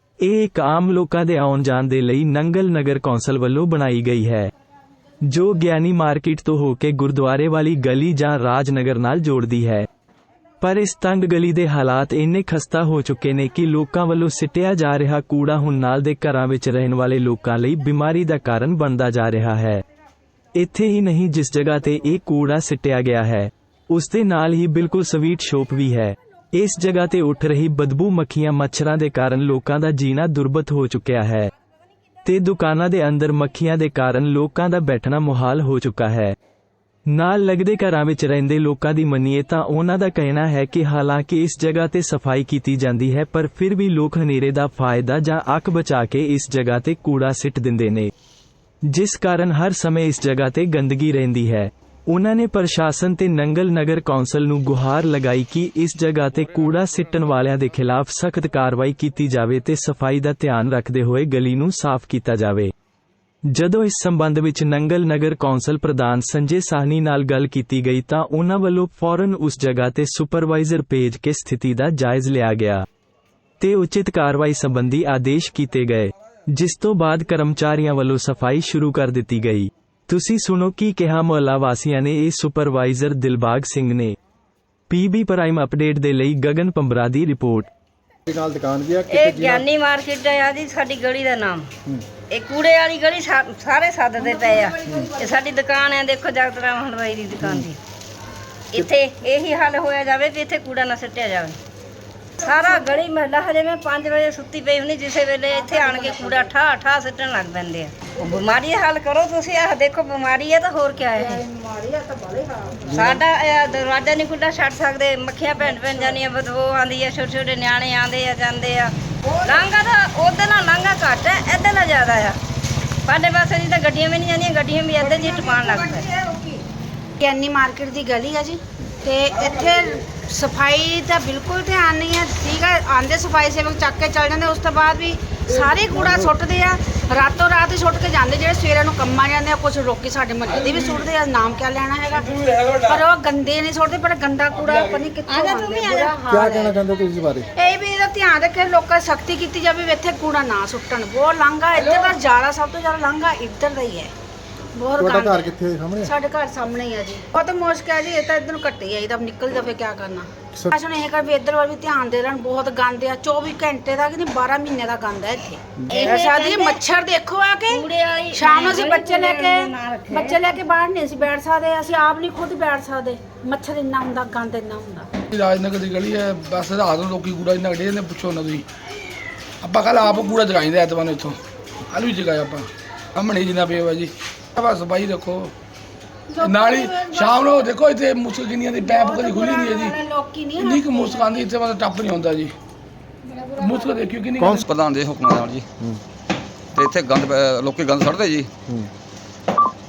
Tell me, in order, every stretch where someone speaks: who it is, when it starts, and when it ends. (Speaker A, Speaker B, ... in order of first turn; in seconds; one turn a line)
Speaker A: 0.2-4.5
Speaker A: 5.2-9.9
Speaker A: 10.6-19.8
Speaker A: 20.6-31.5
Speaker A: 32.2-36.4
Speaker A: 37.1-48.1
Speaker A: 48.9-62.7
Speaker A: 63.5-72.9
Speaker A: 73.6-84.2
Speaker A: 84.9-87.7
Speaker B: 88.3-89.7
Speaker C: 89.1-91.7
Speaker C: 92.3-97.8
Speaker B: 94.8-95.1
Speaker C: 98.7-101.6
Speaker C: 102.4-111.4
Speaker D: 111.3-112.8
Speaker B: 112.9-113.2
Speaker C: 112.9-122.4
Speaker C: 123.1-126.1
Speaker D: 125.3-126.5
Speaker D: 127.2-146.7
Speaker B: 136.0-136.3
Speaker B: 146.2-147.5
Speaker D: 147.6-154.1
Speaker D: 154.8-155.5
Speaker B: 155.0-156.1
Speaker D: 156.0-175.1
Speaker C: 165.9-166.8
Speaker C: 167.7-170.5
Speaker E: 175.3-178.7
Speaker E: 179.6-185.5
Speaker D: 186.3-187.7
Speaker E: 186.4-190.0
Speaker D: 188.8-191.4
Speaker E: 190.6-192.5
Speaker E: 193.5-194.7
Speaker B: 194.4-194.7
Speaker F: 194.6-195.7
Speaker F: 196.8-198.5